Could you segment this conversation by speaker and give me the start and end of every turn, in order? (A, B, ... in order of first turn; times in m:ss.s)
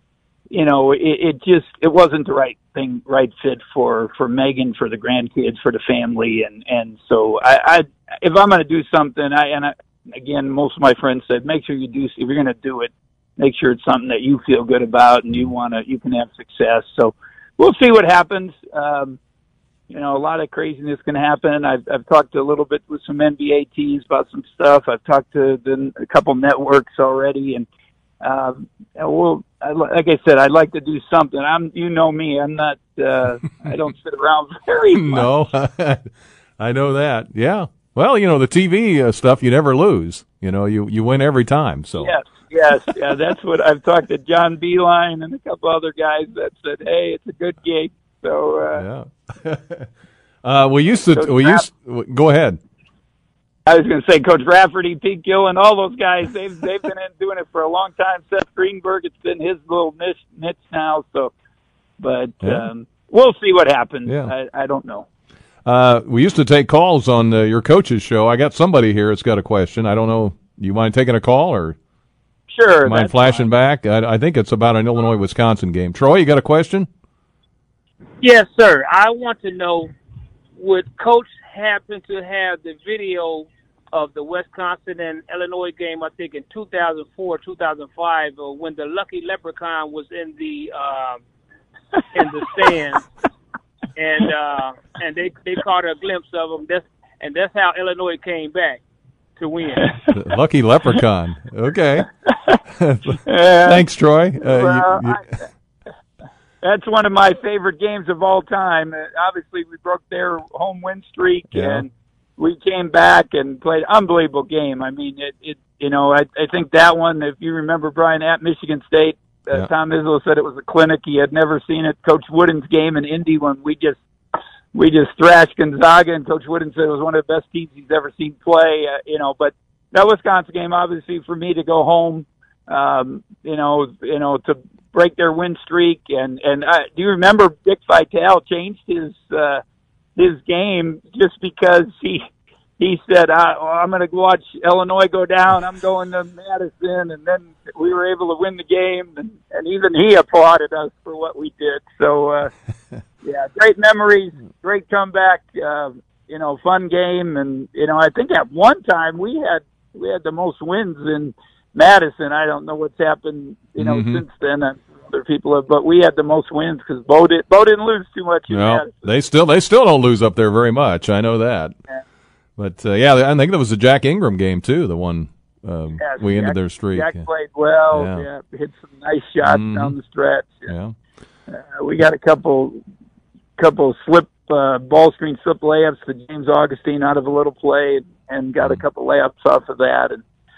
0:00.5-0:19.2 A
0:19.9-0:27.7 A
0:28.2-0:35.3 A
0:34.9-0:42.1 B
0:42.0-0:48.8 A
0:48.7-0:49.9 B
0:50.4-0:52.6 B
0:51.2-0:51.7 A
0:53.7-1:01.3 A
1:02.0-1:05.1 A
1:02.4-1:02.7 B
1:04.1-1:04.3 B
1:05.7-1:11.8 B
1:12.5-1:13.5 A
1:12.8-1:16.9 B
1:18.2-1:19.9 C
1:20.6-1:31.2 C
1:32.1-1:33.1 C
1:34.0-1:38.8 C
1:39.4-1:40.0 C
1:40.1-1:42.1 B
1:42.8-1:45.2 B
1:43.3-1:43.8 A
1:44.4-1:45.4 A
1:46.6-2:04.0 A
1:51.5-1:51.8 B
2:04.7-2:19.6 A
2:20.2-2:22.3 A
2:22.8-2:32.5 A
2:33.2-2:49.1 A
2:43.8-2:44.2 B
2:48.5-2:51.8 B
2:52.6-2:57.3 B
2:56.0-3:00.7 A
2:57.9-2:58.2 B
2:59.4-3:00.0 B
3:00.7-3:01.0 B
3:01.5-3:02.8 A
3:03.6-3:10.2 A
3:08.6-3:08.8 B